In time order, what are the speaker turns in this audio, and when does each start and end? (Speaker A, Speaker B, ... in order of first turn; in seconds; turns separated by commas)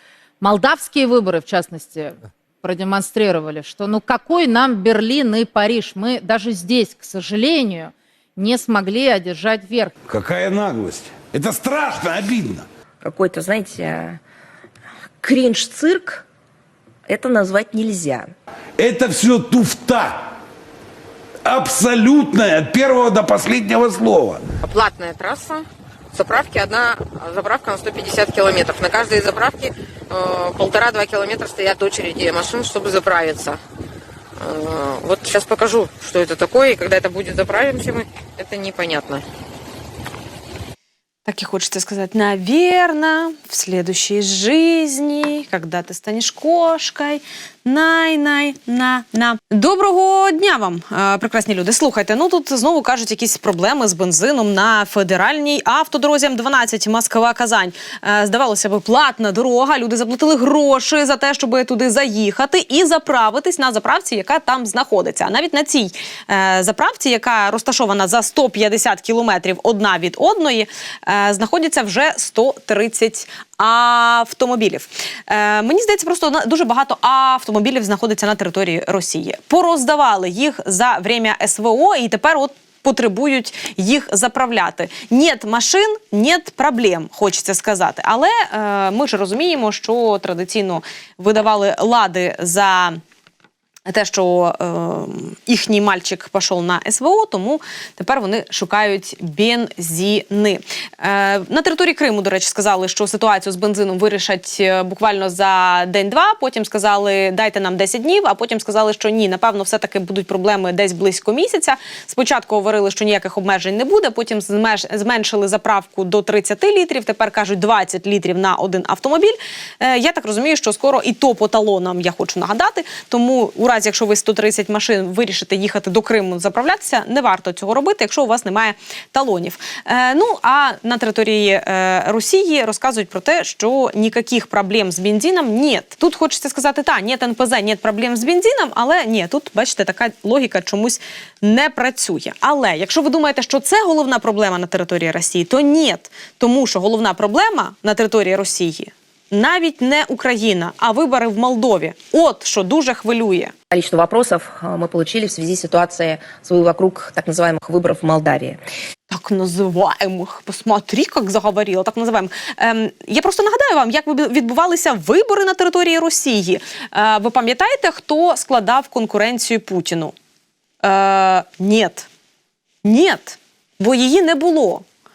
Speaker A: 0.4-9.9, Speaker B: 10.1-12.7, Speaker C: 13.0-14.2, Speaker C: 15.2-16.3, Speaker C: 17.1-18.3, Speaker B: 18.8-20.3, Speaker B: 21.4-24.4, Speaker D: 24.6-33.6, Speaker D: 34.4-39.2, Speaker E: 41.3-93.0, Speaker E: 93.9-153.5, Speaker C: 153.7-158.6, Speaker E: 159.1-170.1, Speaker E: 170.8-172.1, Speaker E: 172.8-174.8